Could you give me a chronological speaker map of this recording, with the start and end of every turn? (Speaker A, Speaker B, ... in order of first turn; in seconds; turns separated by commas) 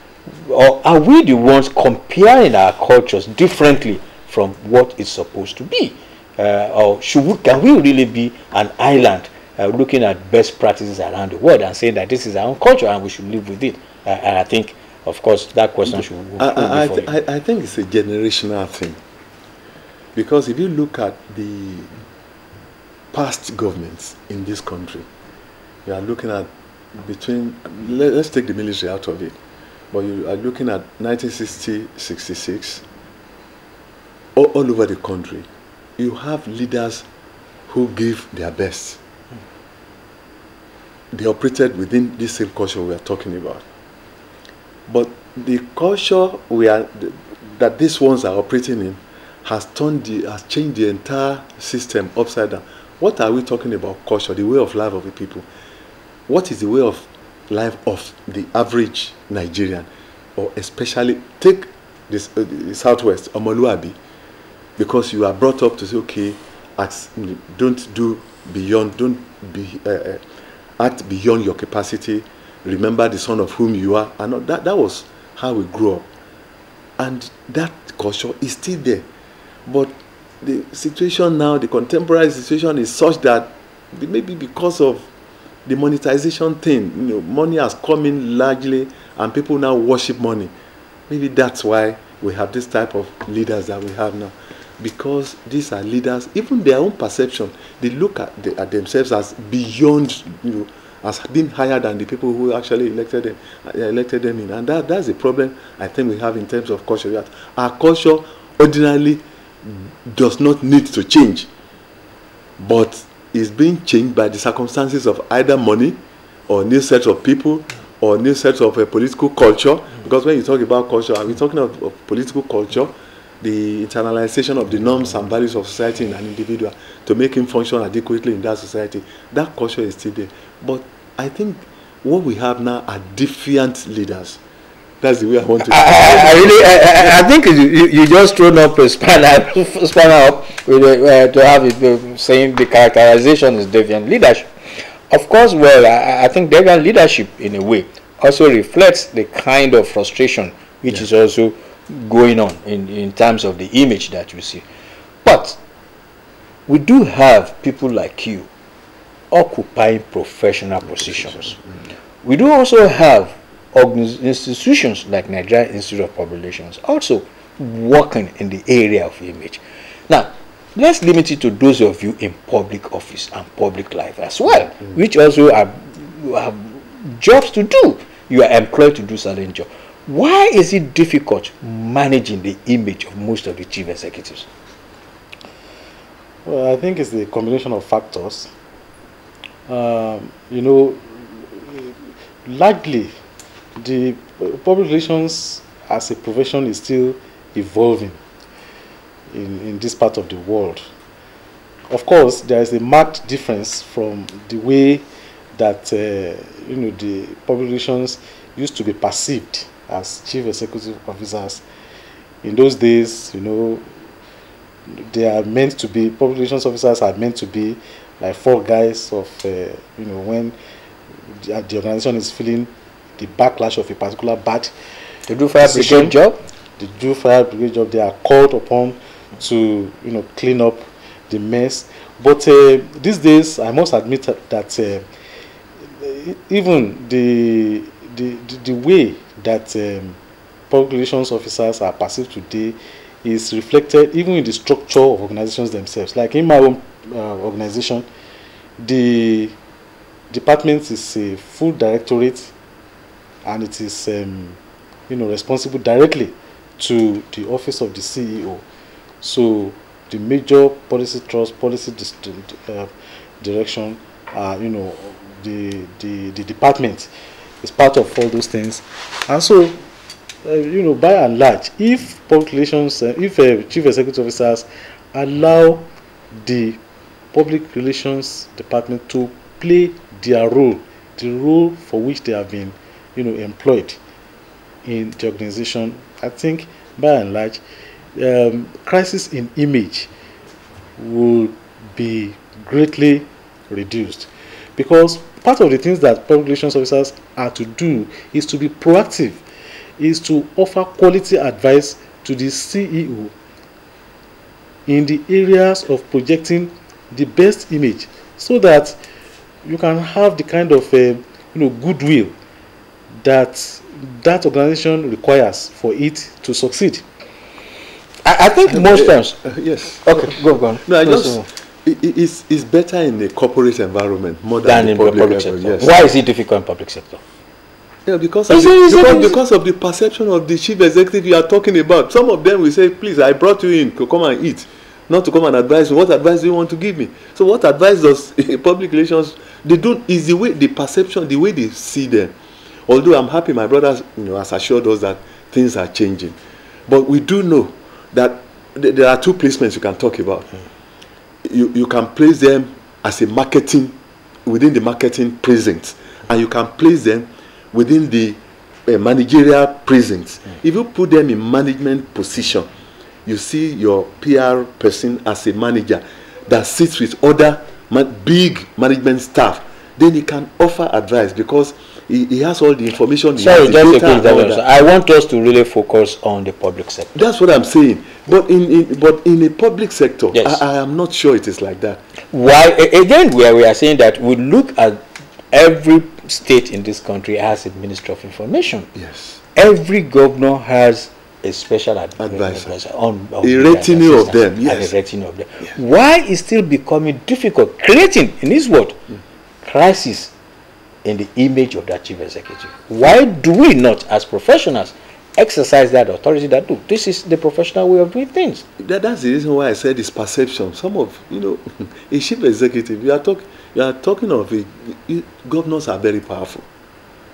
Speaker A: 0.4-17.1, Speaker B: 15.9-19.0, Speaker B: 20.1-21.9, Speaker B: 23.1-25.1, Speaker B: 25.9-29.4, Speaker B: 29.9-32.8, Speaker B: 34.4-35.5, Speaker B: 36.0-37.0, Speaker B: 37.7-39.0, Speaker B: 41.1-43.6, Speaker B: 44.9-55.5, Speaker B: 56.3-64.0, Speaker B: 64.8-70.2, Speaker B: 70.8-76.1, Speaker B: 77.0-79.1, Speaker B: 79.7-85.1, Speaker B: 85.6-90.5, Speaker B: 91.1-111.5, Speaker B: 112.6-134.4, Speaker B: 135.0-137.2, Speaker A: 135.6-144.5, Speaker A: 145.1-154.6, Speaker A: 155.2-155.6, Speaker A: 156.7-158.5, Speaker A: 159.3-161.6, Speaker B: 161.2-161.6, Speaker A: 162.2-184.5, Speaker C: 186.5-188.5, Speaker C: 189.7-191.9, Speaker C: 192.5-193.1, Speaker C: 193.8-198.2, Speaker C: 199.3-200.8, Speaker C: 201.9-211.6, Speaker C: 212.4-213.9, Speaker C: 214.9-220.5, Speaker C: 221.2-224.7, Speaker A: 225.3-226.4, Speaker C: 225.6-226.2, Speaker C: 226.8-235.0, Speaker C: 236.0-240.2, Speaker C: 240.7-248.1, Speaker C: 248.8-249.5, Speaker C: 250.3-252.5, Speaker C: 253.4-258.6, Speaker C: 259.2-262.9, Speaker C: 263.4-267.1, Speaker C: 267.6-269.8, Speaker C: 270.4-276.8, Speaker C: 277.3-284.0, Speaker C: 284.9-287.6, Speaker C: 288.1-290.1, Speaker C: 291.0-299.4, Speaker C: 300.0-303.3, Speaker C: 304.9-309.0, Speaker C: 309.6-312.3, Speaker C: 313.2-317.0, Speaker A: 318.2-319.5, Speaker B: 318.7-326.0, Speaker A: 320.0-321.5, Speaker A: 324.6-327.2, Speaker B: 328.1-342.3, Speaker A: 328.5-329.4, Speaker B: 342.9-350.5, Speaker B: 351.4-362.7, Speaker B: 363.2-374.6, Speaker A: 373.4-377.1, Speaker B: 377.1-382.0, Speaker A: 380.3-380.6, Speaker A: 382.3-385.0, Speaker A: 385.5-388.9, Speaker B: 388.9-389.4, Speaker A: 389.5-399.0, Speaker B: 392.2-392.7, Speaker B: 393.4-394.9, Speaker A: 399.6-400.3, Speaker A: 401.0-408.6, Speaker B: 408.8-416.7